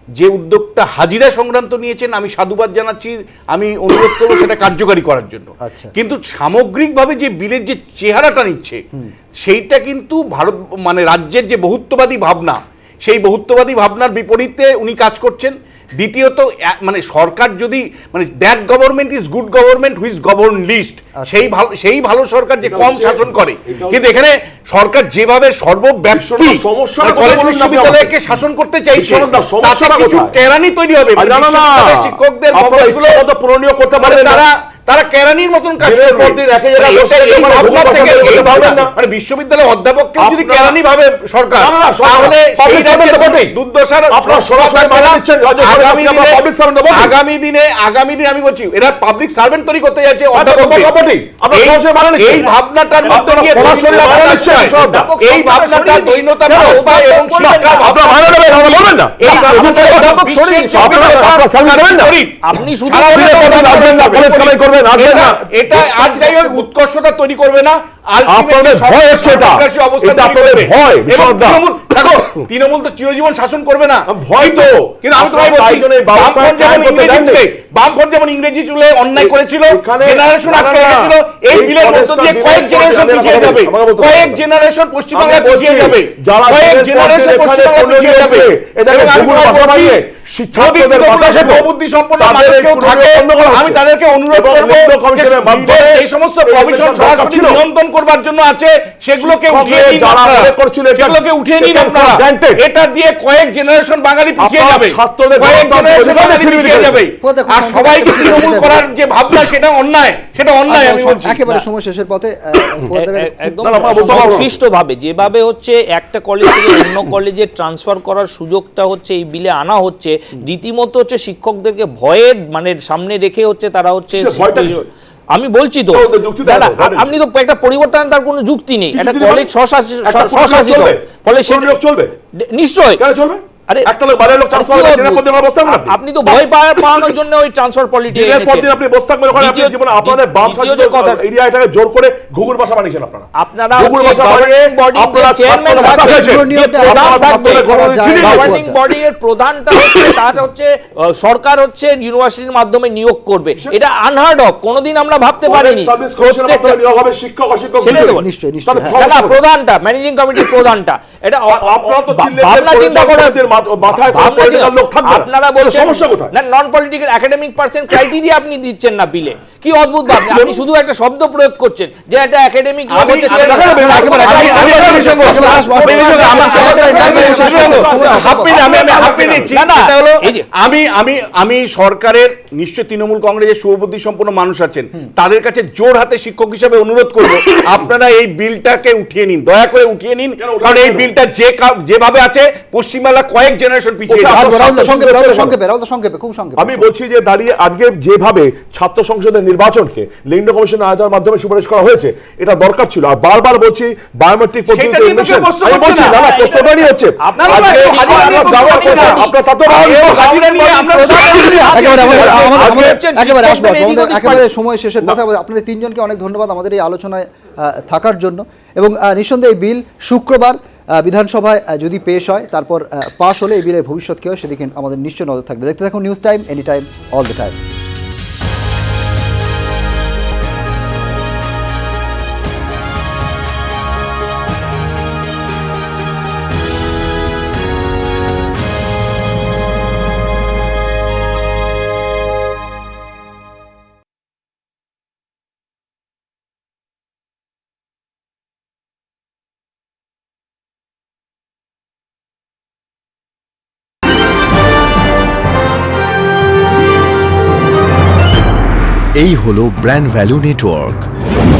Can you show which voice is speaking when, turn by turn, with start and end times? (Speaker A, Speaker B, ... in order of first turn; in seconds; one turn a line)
Speaker A: 0.2-8.8
Speaker B: 5.6-5.9
Speaker A: 9.4-33.2
Speaker B: 21.2-21.5
Speaker C: 22.6-24.1
Speaker C: 26.1-28.1
Speaker C: 28.9-30.4
Speaker C: 31.2-34.4
Speaker A: 34.0-50.9
Speaker C: 35.8-38.9
Speaker C: 40.2-40.8
Speaker C: 41.6-43.6
Speaker C: 44.1-47.2
Speaker C: 50.3-52.5
Speaker A: 51.5-90.0
Speaker D: 53.0-58.0
Speaker C: 53.1-55.1
Speaker C: 56.5-56.9
Speaker C: 57.8-62.2
Speaker D: 59.2-61.3
Speaker D: 62.4-63.9
Speaker C: 63.0-65.9
Speaker C: 68.3-71.7
Speaker C: 74.1-77.4
Speaker C: 79.2-84.4
Speaker C: 85.1-93.8
Speaker A: 90.5-111.4
Speaker C: 94.3-97.7
Speaker C: 99.2-102.7
Speaker C: 104.4-107.1
Speaker B: 107.2-108.8
Speaker B: 110.7-114.5
Speaker D: 112.9-131.8
Speaker C: 113.6-114.6
Speaker C: 124.2-124.9
Speaker C: 125.9-127.2
Speaker C: 128.9-129.5
Speaker C: 130.1-132.1
Speaker D: 132.4-133.0
Speaker C: 133.0-137.2
Speaker D: 134.5-138.7
Speaker C: 138.1-148.7
Speaker D: 139.3-141.2
Speaker D: 143.4-156.8
Speaker B: 146.0-148.8
Speaker C: 155.4-159.4
Speaker D: 157.8-158.3
Speaker B: 157.9-159.0
Speaker D: 158.9-178.0
Speaker C: 161.5-166.3
Speaker A: 172.9-194.6
Speaker C: 173.3-175.6
Speaker B: 173.9-178.9
Speaker C: 176.2-179.5
Speaker D: 179.1-180.4
Speaker C: 190.4-191.1
Speaker C: 194.1-195.6
Speaker B: 194.2-196.9
Speaker C: 196.6-211.5
Speaker A: 204.7-206.2
Speaker D: 205.9-214.4
Speaker A: 207.4-212.3
Speaker B: 211.7-227.6
Speaker C: 212.0-213.0
Speaker E: 259.1-261.1